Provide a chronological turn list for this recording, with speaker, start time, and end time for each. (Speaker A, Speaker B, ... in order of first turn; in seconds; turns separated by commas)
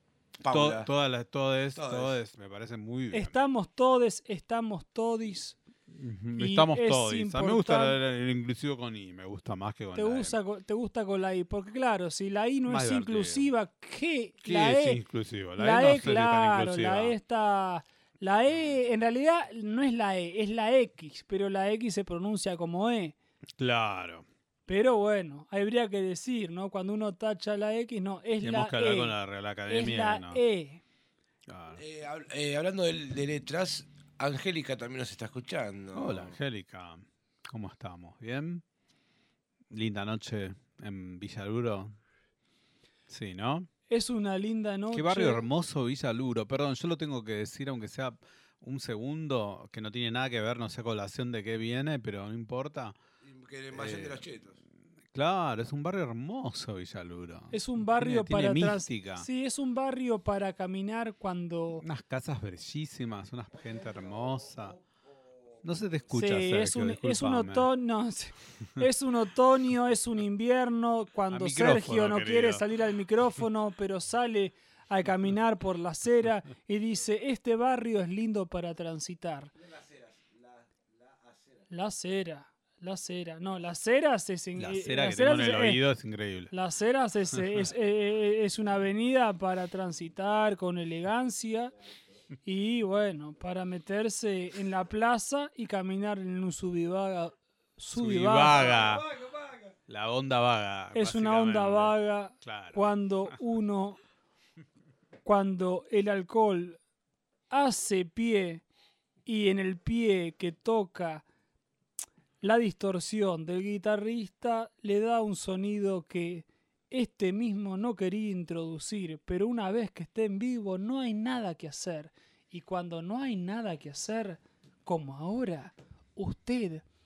Speaker A: 0.4-0.9, Speaker B: 0.5-3.4, Speaker A: 1.8-2.2, Speaker C: 3.1-5.6, Speaker B: 5.9-10.4, Speaker C: 6.4-8.0, Speaker C: 9.9-15.0, Speaker B: 12.7-13.5, Speaker B: 14.4-17.1, Speaker C: 15.6-23.2, Speaker B: 23.6-24.3, Speaker C: 24.7-29.1, Speaker B: 28.4-30.4, Speaker C: 29.7-30.8, Speaker B: 31.5-31.8, Speaker A: 31.8-36.4, Speaker B: 35.9-38.6, Speaker B: 39.7-42.0, Speaker B: 43.1-43.7, Speaker C: 43.9-45.4, Speaker B: 44.9-53.0, Speaker A: 53.2-54.6, Speaker B: 53.7-54.2, Speaker B: 55.1-59.3, Speaker C: 57.5-61.8, Speaker B: 61.8-64.8, Speaker A: 63.6-65.9, Speaker B: 65.6-67.7, Speaker C: 66.1-79.5, Speaker B: 71.3-72.6, Speaker A: 79.5-81.7, Speaker C: 81.7-85.8, Speaker B: 84.6-86.5, Speaker C: 86.5-91.7, Speaker B: 87.3-87.7, Speaker C: 92.5-98.7, Speaker B: 97.9-99.1, Speaker A: 98.5-99.8, Speaker B: 99.9-103.4, Speaker C: 100.9-104.0, Speaker C: 105.2-106.8, Speaker C: 107.5-108.7, Speaker C: 109.3-111.2, Speaker C: 112.4-126.9